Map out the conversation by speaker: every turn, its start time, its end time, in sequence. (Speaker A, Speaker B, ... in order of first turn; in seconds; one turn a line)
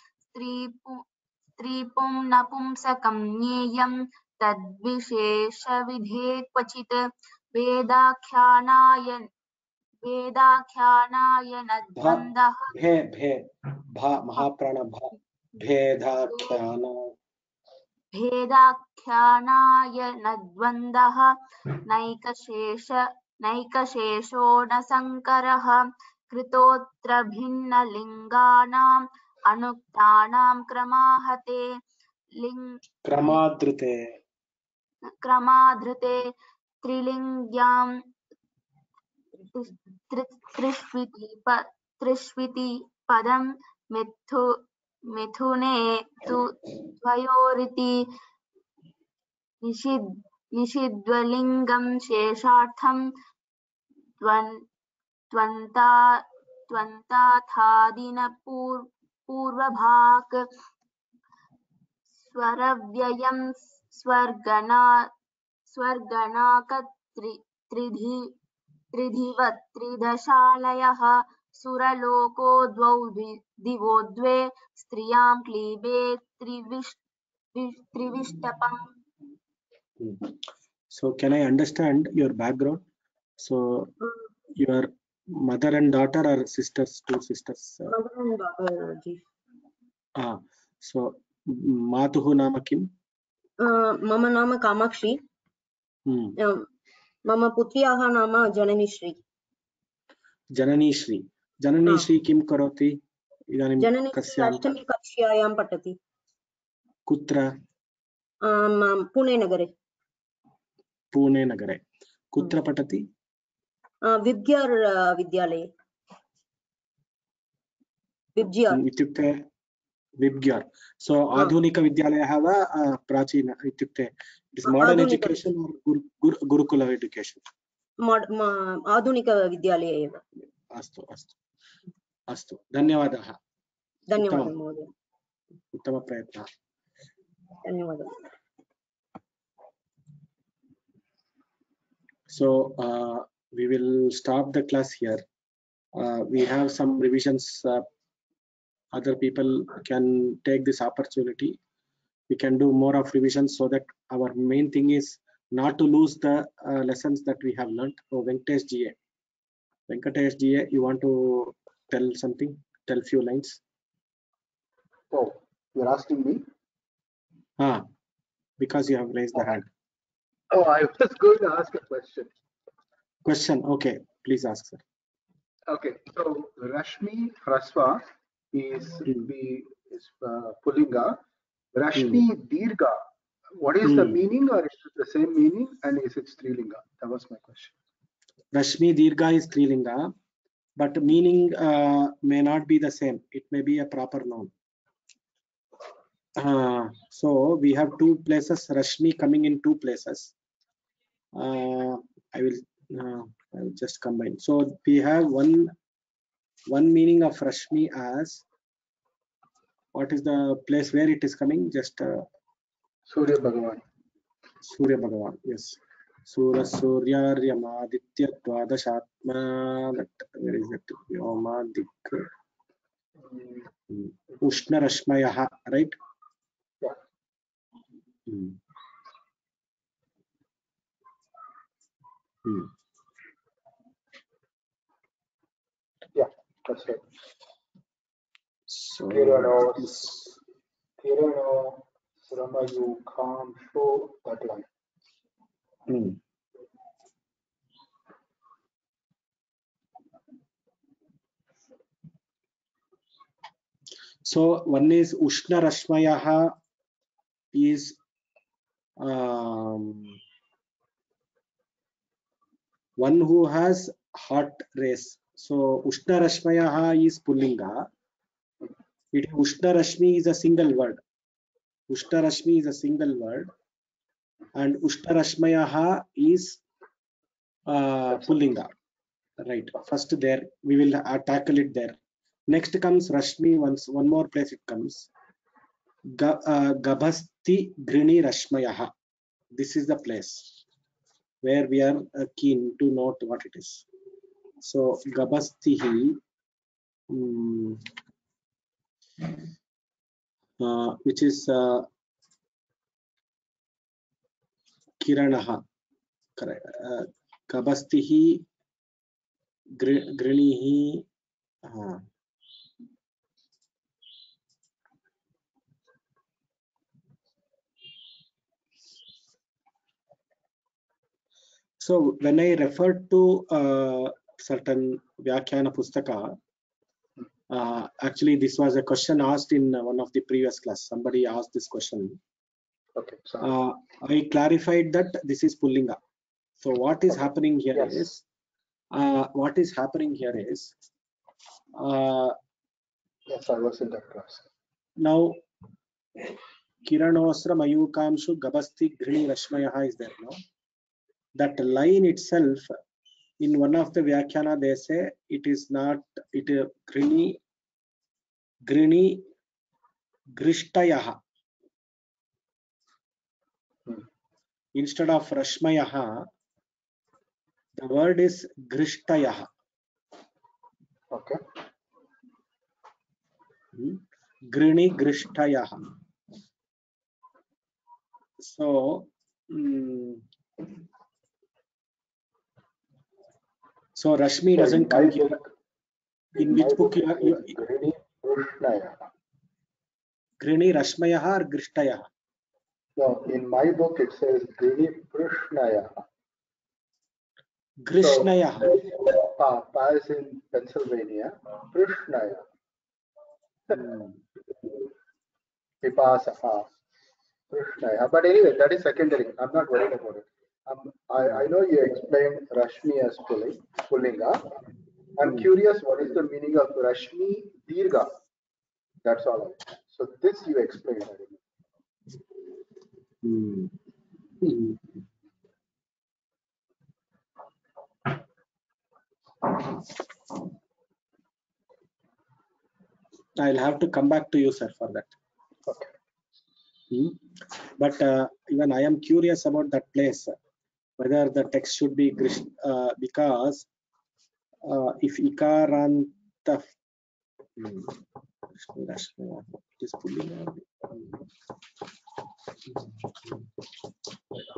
Speaker A: 0.3-1.0
Speaker A: 1.6-7.0
Speaker A: 7.5-9.3
Speaker A: 10.0-12.7
Speaker B: 12.0-17.1
Speaker A: 16.3-16.6
Speaker A: 18.1-21.3
Speaker A: 21.9-28.9
Speaker A: 29.5-31.7
Speaker A: 32.4-33.4
Speaker B: 33.0-34.2
Speaker A: 35.2-36.3
Speaker A: 36.8-37.9
Speaker A: 39.5-44.5
Speaker A: 45.1-48.0
Speaker A: 49.6-50.0
Speaker A: 50.5-53.0
Speaker A: 54.2-54.5
Speaker A: 55.3-60.4
Speaker A: 62.3-65.1
Speaker A: 65.7-68.3
Speaker A: 68.9-77.0
Speaker A: 77.6-78.8
Speaker B: 80.0-80.3
Speaker B: 80.9-82.8
Speaker B: 83.4-83.9
Speaker B: 84.6-87.9
Speaker C: 87.9-89.2
Speaker B: 90.2-92.9
Speaker C: 93.6-95.2
Speaker B: 96.1-96.4
Speaker C: 96.4-96.7
Speaker C: 97.3-99.2
Speaker B: 100.5-103.0
Speaker B: 103.5-104.8
Speaker C: 103.8-106.0
Speaker B: 107.1-107.5
Speaker C: 108.5-109.7
Speaker B: 111.1-111.8
Speaker B: 112.3-113.1
Speaker C: 114.1-115.7
Speaker C: 118.4-118.8
Speaker B: 118.7-119.5
Speaker B: 120.2-127.4
Speaker C: 124.7-125.4
Speaker C: 128.1-130.2
Speaker B: 130.7-131.4
Speaker B: 132.3-133.4
Speaker C: 134.1-134.9
Speaker B: 134.2-134.5
Speaker B: 135.7-136.5
Speaker C: 137.7-138.2
Speaker B: 142.3-145.2
Speaker B: 145.9-147.9
Speaker B: 148.9-151.6
Speaker B: 152.3-159.0
Speaker B: 159.9-163.6
Speaker D: 165.1-166.4
Speaker B: 167.6-167.9
Speaker B: 168.6-169.7
Speaker D: 170.5-172.3
Speaker B: 173.2-174.8
Speaker D: 175.7-181.2
Speaker D: 181.8-183.0
Speaker B: 181.9-182.2
Speaker D: 183.6-187.7
Speaker B: 183.8-184.2
Speaker B: 188.5-190.1
Speaker B: 190.8-194.5
Speaker B: 196.4-200.3
Speaker B: 201.4-205.7
Speaker B: 206.7-208.4
Speaker B: 209.9-212.2
Speaker D: 213.1-213.8
Speaker B: 214.6-222.3
Speaker D: 223.2-223.7
Speaker B: 223.9-226.0
Speaker B: 228.3-228.6
Speaker B: 232.4-232.7
Speaker D: 236.2-237.0
Speaker B: 238.7-240.3
Speaker D: 239.1-240.0
Speaker D: 241.0-244.7
Speaker B: 245.9-246.2
Speaker B: 254.3-256.5
Speaker B: 257.5-258.0
Speaker B: 259.0-260.2
Speaker B: 263.0-267.9
Speaker B: 269.1-271.0
Speaker B: 271.9-273.5
Speaker B: 274.6-276.6
Speaker B: 277.7-278.7
Speaker B: 279.4-282.0
Speaker B: 282.5-285.1
Speaker B: 286.1-288.9
Speaker B: 289.6-290.5
Speaker B: 291.4-293.9
Speaker B: 294.6-296.2
Speaker B: 297.1-297.9
Speaker B: 300.6-301.9
Speaker B: 305.0-305.6
Speaker B: 306.4-308.4
Speaker B: 309.8-311.1
Speaker B: 311.7-312.1
Speaker B: 321.8-326.4
Speaker B: 327.5-332.2
Speaker D: 333.0-333.6
Speaker B: 333.4-336.0
Speaker B: 336.6-338.2
Speaker D: 337.8-338.1
Speaker B: 338.9-340.7
Speaker B: 341.8-342.4
Speaker D: 343.3-344.5
Speaker B: 345.0-345.4
Speaker B: 346.9-350.4
Speaker B: 351.4-352.7
Speaker B: 353.4-357.4
Speaker B: 358.7-359.2
Speaker B: 360.4-361.2
Speaker B: 364.8-366.3
Speaker B: 367.8-369.5
Speaker D: 371.1-371.4
Speaker B: 373.7-375.8
Speaker B: 378.4-380.2
Speaker B: 384.0-385.4
Speaker D: 384.6-385.5
Speaker B: 386.4-387.6
Speaker D: 386.4-389.0
Speaker B: 390.4-392.1
Speaker D: 393.0-395.9
Speaker B: 397.9-398.8
Speaker D: 398.0-402.4
Speaker B: 403.7-404.2
Speaker D: 405.8-406.7
Speaker D: 407.5-414.4
Speaker D: 415.2-418.1
Speaker D: 419.0-421.4
Speaker B: 423.2-423.7
Speaker B: 424.4-425.0
Speaker B: 433.4-435.1
Speaker B: 436.9-437.2
Speaker B: 437.8-440.4
Speaker B: 441.0-443.7
Speaker B: 444.6-446.7
Speaker B: 447.6-448.0
Speaker B: 448.5-451.1